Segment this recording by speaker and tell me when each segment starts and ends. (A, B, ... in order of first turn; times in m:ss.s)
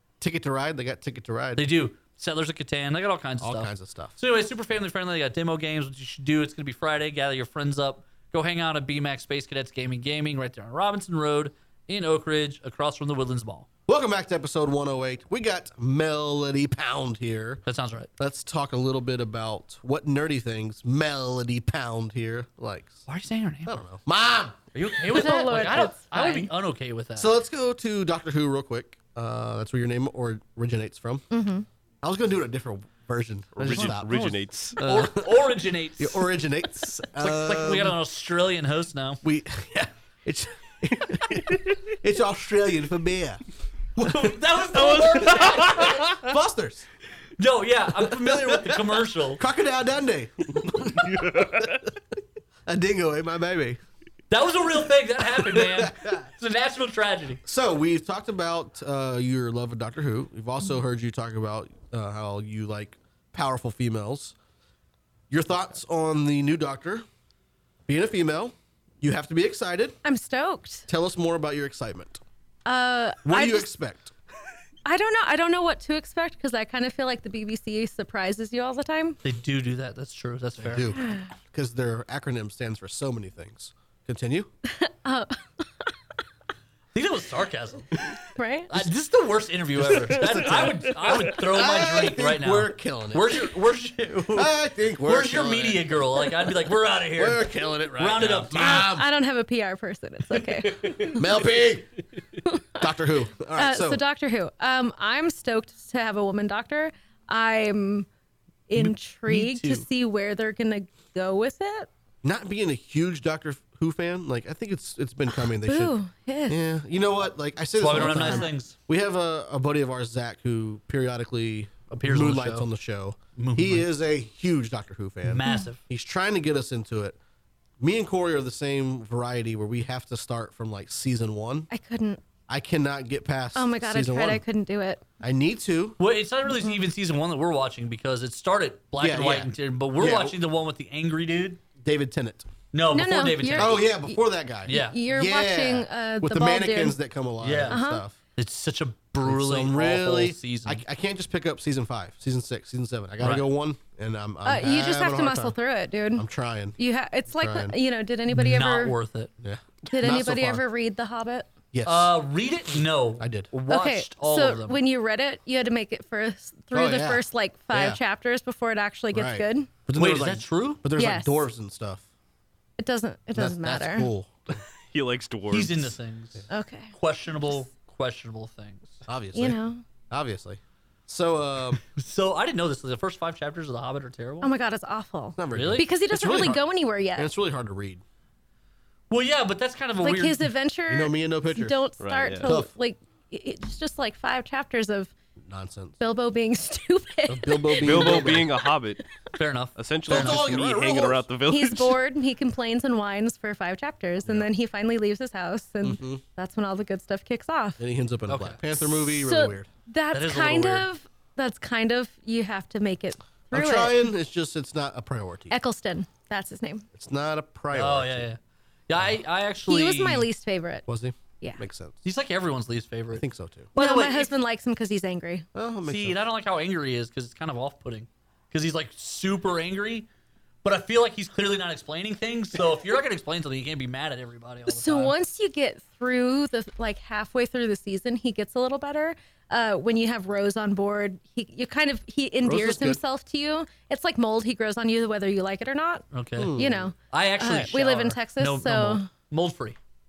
0:00.2-0:01.7 A
0:01.6-0:13.7 B
0:03.4-0:04.2 A
0:13.9-0:17.6 A
0:17.7-0:18.1 B
0:18.2-0:23.0 A
0:23.1-0:23.8 B
0:23.7-0:24.6 A
0:24.7-0:27.3 B
0:25.1-0:26.5 C
0:27.2-0:31.3 A
0:31.3-0:31.7 C
0:32.0-0:34.2 A
0:33.6-0:34.8 D
0:33.7-0:36.3 B
0:34.8-0:38.0 A
0:37.2-0:39.2 B
0:39.2-0:43.4 A
0:44.0-0:46.9 A
0:44.0-0:46.3 B
0:47.4-0:49.4 B
0:48.0-0:51.9 A
0:51.1-0:51.7 D
0:52.7-0:53.8 A
0:54.3-0:57.4 B
0:55.2-0:56.3 A
0:57.4-1:04.4 A
1:05.3-1:07.1 A
1:07.9-1:10.0 A
1:10.0-1:10.9 C
1:10.9-1:12.2 A
1:12.7-1:13.7 C
1:13.2-1:14.1 A
1:14.8-1:19.2 C
1:19.2-1:20.9 B
1:20.6-1:24.5 A
1:21.0-1:21.3 C
1:24.7-1:25.6 C
1:26.9-1:28.0 B
1:28.4-1:28.7 C
1:28.7-1:38.8 B
1:29.8-1:33.4 A
1:34.3-1:36.6 A
1:37.1-1:39.1 A
1:38.6-1:41.2 C
1:40.6-1:40.9 B
1:41.1-1:42.0 A
1:42.5-1:42.9 C
1:42.8-1:44.0 A
1:43.6-1:48.1 C
1:48.7-1:51.9 C
1:48.8-1:49.9 B
1:52.2-1:56.0 A
1:55.6-1:56.6 C
1:56.5-2:07.2 A
1:57.8-1:58.8 B
1:57.9-1:58.5 C
2:01.9-2:02.7 B
2:03.4-2:03.9 B
2:05.3-2:05.8 B
2:05.4-2:05.7 C
2:07.8-2:11.7 A
2:11.7-2:12.2 C
2:12.5-2:14.4 A
2:13.6-2:15.1 C
2:15.2-2:16.0 A
2:16.0-2:21.6 B
2:19.0-2:20.4 A
2:21.8-2:22.5 A
2:22.7-2:23.9 B
2:22.9-2:27.0 C
2:23.5-2:28.2 A
2:24.7-2:25.0 B
2:27.4-2:27.8 B
2:27.7-2:28.0 C
2:28.4-2:30.8 B
2:29.2-2:35.6 A
2:33.2-2:33.5 B
2:34.4-2:36.3 C
2:36.2-2:36.8 A
2:36.8-2:39.0 C
2:37.3-2:37.8 A
2:38.3-2:39.3 B
2:39.4-2:40.6 A
2:39.9-2:41.5 C
2:41.7-2:42.2 A
2:41.8-2:44.8 B
2:43.2-2:43.5 A
2:43.7-2:49.7 C
2:46.7-2:48.0 A
2:49.1-2:52.0 A
2:50.0-2:50.8 B
2:51.0-2:51.4 C
2:52.8-2:54.1 C
2:53.4-2:54.6 A
2:54.9-2:55.9 D
2:55.5-2:59.0 B
2:56.5-2:56.9 C
2:59.1-3:01.8 A
2:59.4-2:59.8 C
3:01.9-3:04.5 B
3:04.4-3:07.3 C
3:05.4-3:06.6 A
3:05.5-3:05.9 B
3:07.2-3:08.0 A
3:09.1-3:10.5 B
3:10.0-3:15.1 C
3:10.9-3:11.8 A
3:12.0-3:12.6 D
3:12.4-3:12.7 A
3:15.4-3:16.0 A
3:16.0-3:18.7 C
3:17.3-3:18.5 A
3:17.8-3:19.0 D
3:19.4-3:20.6 B
3:19.8-3:22.0 D
3:20.1-3:21.3 A
3:21.5-3:27.8 C
3:25.8-3:26.2 A
3:27.8-3:29.7 A
3:28.3-3:28.6 B
3:29.1-3:34.1 C
3:30.1-3:30.9 B
3:33.5-3:35.6 A
3:35.5-3:36.9 C
3:36.9-3:38.3 A
3:37.7-3:40.3 B
3:39.7-3:40.8 C
3:40.9-3:42.0 A
3:42.0-3:44.3 B
3:43.1-3:43.7 A
3:43.8-3:45.5 C
3:45.5-3:46.2 A
3:45.8-3:50.1 B
3:50.6-3:55.2 B
3:54.7-4:09.1 C
4:02.4-4:03.0 A
4:06.1-4:09.8 B
4:06.4-4:06.9 A